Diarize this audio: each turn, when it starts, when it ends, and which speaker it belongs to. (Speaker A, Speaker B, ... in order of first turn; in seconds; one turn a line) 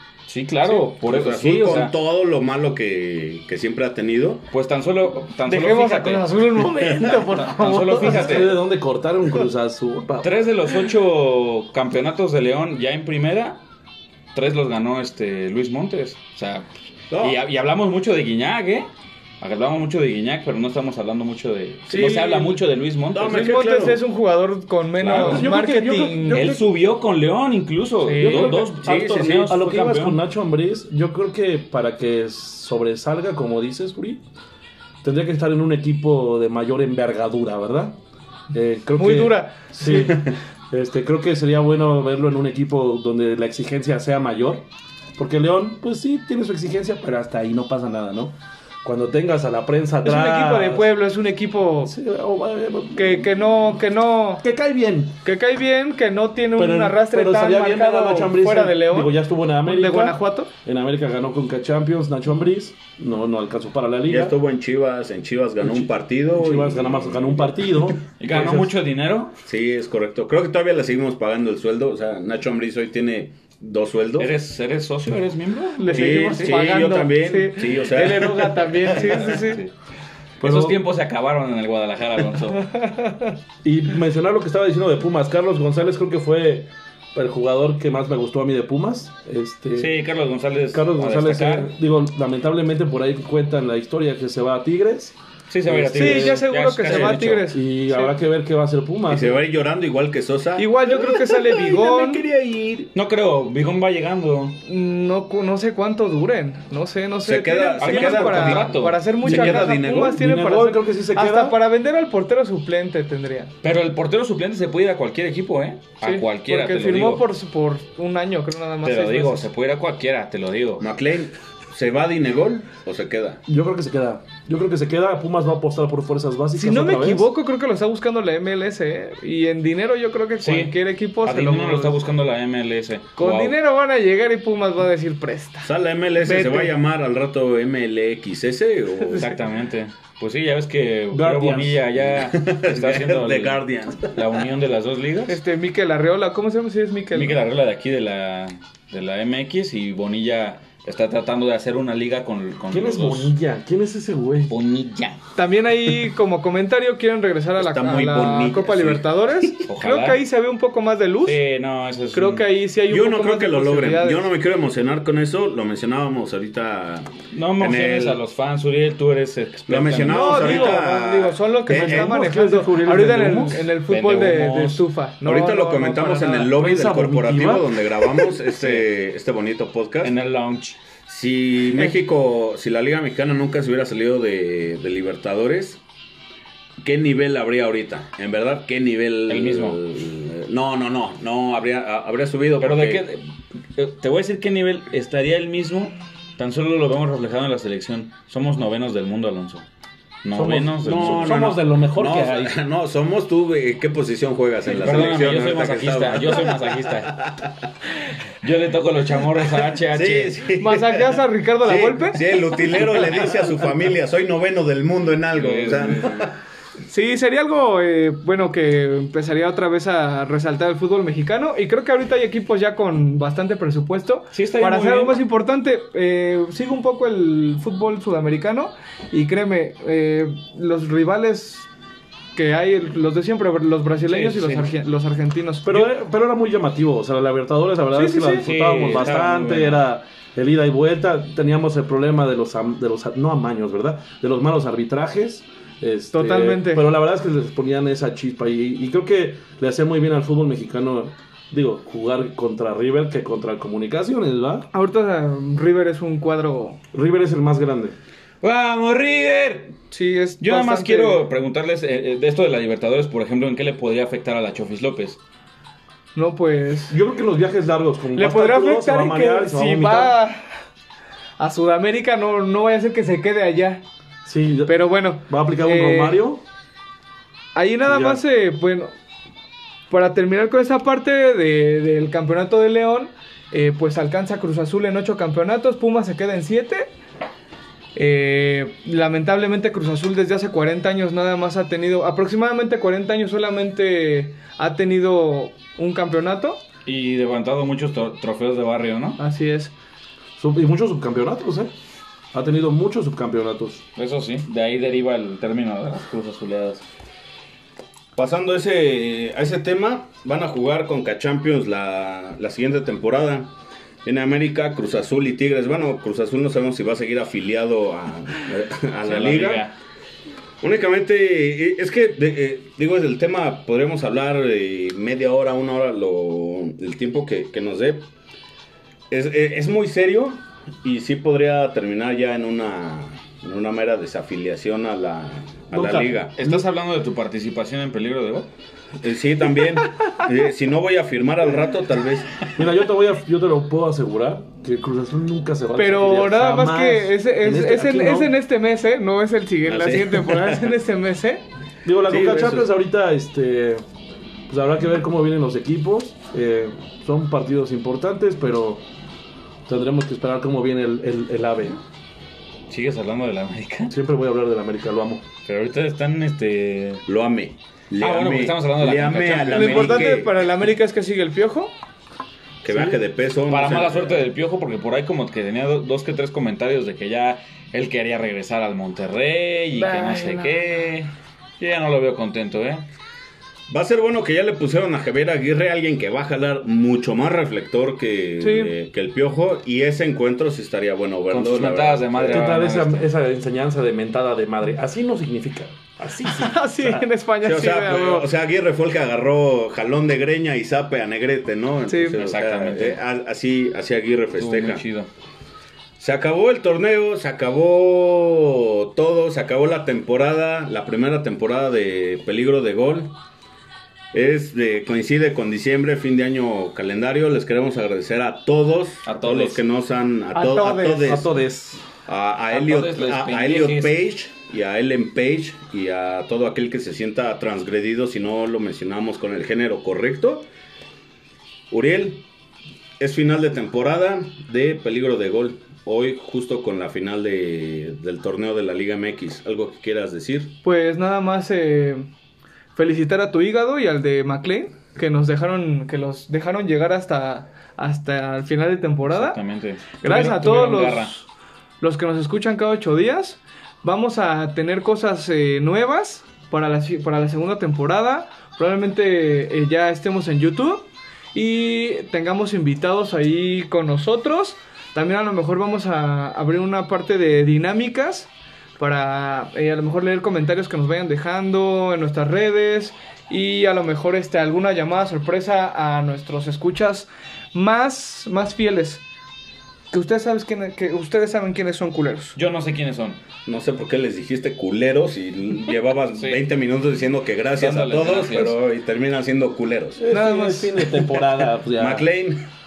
Speaker A: 0.3-1.9
Speaker B: 1.0-4.5
Speaker A: 4.5-6.2
Speaker C: 5.5-8.4
Speaker A: 7.4-8.5
Speaker D: 7.9-10.3
Speaker A: 10.2-13.6
Speaker A: 14.3-16.7
Speaker B: 17.1-17.4
Speaker A: 17.2-23.5
Speaker C: 21.9-22.6
Speaker B: 23.1-24.0
Speaker C: 23.2-26.4
Speaker A: 25.0-25.5
Speaker D: 25.1-26.6
Speaker A: 26.3-30.2
Speaker C: 28.0-28.6
Speaker D: 28.1-34.2
Speaker B: 28.8-29.5
Speaker D: 35.0-38.0
Speaker D: 38.5-50.9
Speaker C: 39.0-40.2
Speaker C: 50.0-51.9
Speaker D: 51.8-53.3
Speaker C: 52.9-54.4
Speaker D: 54.4-55.2
Speaker C: 55.2-60.5
Speaker D: 56.5-64.3
Speaker B: 64.1-67.6
Speaker D: 65.6-68.7
Speaker A: 68.2-69.4
Speaker B: 69.5-74.3
Speaker A: 74.2-76.8
Speaker C: 75.8-79.6
Speaker B: 75.9-79.2
Speaker A: 78.8-79.7
Speaker D: 80.4-80.8
Speaker A: 80.4-82.6
Speaker C: 82.5-83.3
Speaker D: 83.6-90.0
Speaker A: 89.8-91.7
Speaker D: 90.7-96.4
Speaker A: 95.5-97.4
Speaker C: 95.9-98.1
Speaker D: 97.5-99.4
Speaker B: 99.1-102.9
Speaker C: 100.6-102.2
Speaker A: 102.9-104.6
Speaker C: 104.6-113.5
Speaker B: 107.2-110.2
Speaker A: 107.8-109.0
Speaker D: 109.2-111.6
Speaker A: 113.6-117.2
Speaker C: 116.0-119.5
Speaker A: 118.8-120.8
Speaker B: 120.8-123.4
Speaker D: 123.5-127.3
Speaker C: 126.5-132.0
Speaker A: 130.4-133.6
Speaker C: 133.2-135.7
Speaker B: 135.6-139.3
Speaker C: 136.2-136.7
Speaker A: 139.1-145.4
Speaker D: 141.1-141.8
Speaker B: 142.0-144.2
Speaker C: 145.3-147.4
Speaker A: 147.1-153.3
Speaker D: 152.7-154.5
Speaker A: 154.5-155.2
Speaker C: 155.3-161.4
Speaker B: 157.6-159.6
Speaker A: 159.7-160.2
Speaker A: 161.2-162.4
Speaker C: 162.1-164.2
Speaker B: 162.9-168.2
Speaker A: 167.3-170.8
Speaker B: 169.7-172.1
Speaker C: 170.1-176.5
Speaker D: 171.7-173.7
Speaker A: 173.9-174.8
Speaker B: 175.2-180.1
Speaker D: 176.4-178.3
Speaker A: 178.5-178.9
Speaker A: 180.0-180.8
Speaker B: 181.1-185.8
Speaker B: 186.8-193.0
Speaker A: 189.3-189.8
Speaker A: 192.6-199.7
Speaker A: 200.2-201.3
Speaker D: 200.3-202.6
Speaker B: 200.8-207.4
Speaker A: 204.7-207.1
Speaker A: 208.4-210.4
Speaker B: 209.9-216.3
Speaker C: 210.6-212.2
Speaker A: 215.3-216.3
Speaker C: 216.9-231.7
Speaker A: 224.3-225.2
Speaker C: 232.3-235.9
Speaker A: 234.1-234.7
Speaker D: 235.6-254.7
Speaker C: 237.9-239.2
Speaker A: 238.4-239.8
Speaker C: 246.1-246.9
Speaker C: 254.7-256.8
Speaker D: 256.9-258.0
Speaker A: 258.4-259.8
Speaker C: 259.9-261.2
Speaker A: 260.4-265.2
Speaker C: 266.1-267.0
Speaker D: 266.9-270.1
Speaker C: 268.1-270.5
Speaker C: 271.4-273.8
Speaker D: 274.2-276.4
Speaker C: 274.6-276.2
Speaker C: 277.5-278.9
Speaker D: 277.9-278.2
Speaker C: 279.9-286.9
Speaker C: 287.9-296.6
Speaker A: 296.9-299.2
Speaker C: 299.2-299.7
Speaker D: 300.4-301.7
Speaker D: 302.3-303.8
Speaker A: 303.9-306.8
Speaker B: 308.1-313.5
Speaker B: 314.0-319.7
Speaker A: 319.0-319.7
Speaker B: 320.6-328.1
Speaker B: 329.1-336.3
Speaker D: 335.7-336.6
Speaker A: 336.4-338.5
Speaker B: 339.0-342.4
Speaker D: 342.6-348.4
Speaker C: 345.8-351.4
Speaker B: 349.6-350.7
Speaker D: 351.8-353.8
Speaker B: 352.1-352.7
Speaker D: 354.5-358.8
Speaker D: 359.6-361.8
Speaker A: 362.7-363.9
Speaker D: 363.9-365.2
Speaker A: 365.4-367.0
Speaker B: 367.1-370.3
Speaker A: 368.0-370.1
Speaker C: 369.5-371.7
Speaker B: 372.6-374.2
Speaker D: 372.7-373.0
Speaker A: 373.5-382.8
Speaker C: 379.7-380.9
Speaker B: 383.7-392.6
Speaker C: 388.4-388.7
Speaker A: 391.3-393.1
Speaker D: 392.3-396.6
Speaker C: 396.2-398.3
Speaker B: 397.4-404.8
Speaker C: 401.9-402.2
Speaker A: 402.1-403.0
Speaker A: 404.4-405.1
Speaker B: 406.0-413.1
Speaker B: 414.1-421.4
Speaker A: 419.0-419.6
Speaker C: 420.3-421.2
Speaker D: 421.0-421.8
Speaker B: 422.1-430.5
Speaker A: 422.5-424.0
Speaker B: 431.7-432.2
Speaker B: 433.0-440.5
Speaker C: 440.6-442.1
Speaker C: 442.7-449.4
Speaker A: 449.1-451.1
Speaker C: 450.0-451.2
Speaker C: 451.8-479.0
Speaker C: 479.9-482.4
Speaker A: 482.3-483.2
Speaker B: 483.4-490.0
Speaker A: 487.6-488.6
Speaker D: 490.0-492.1
Speaker C: 490.1-490.9
Speaker B: 491.7-492.4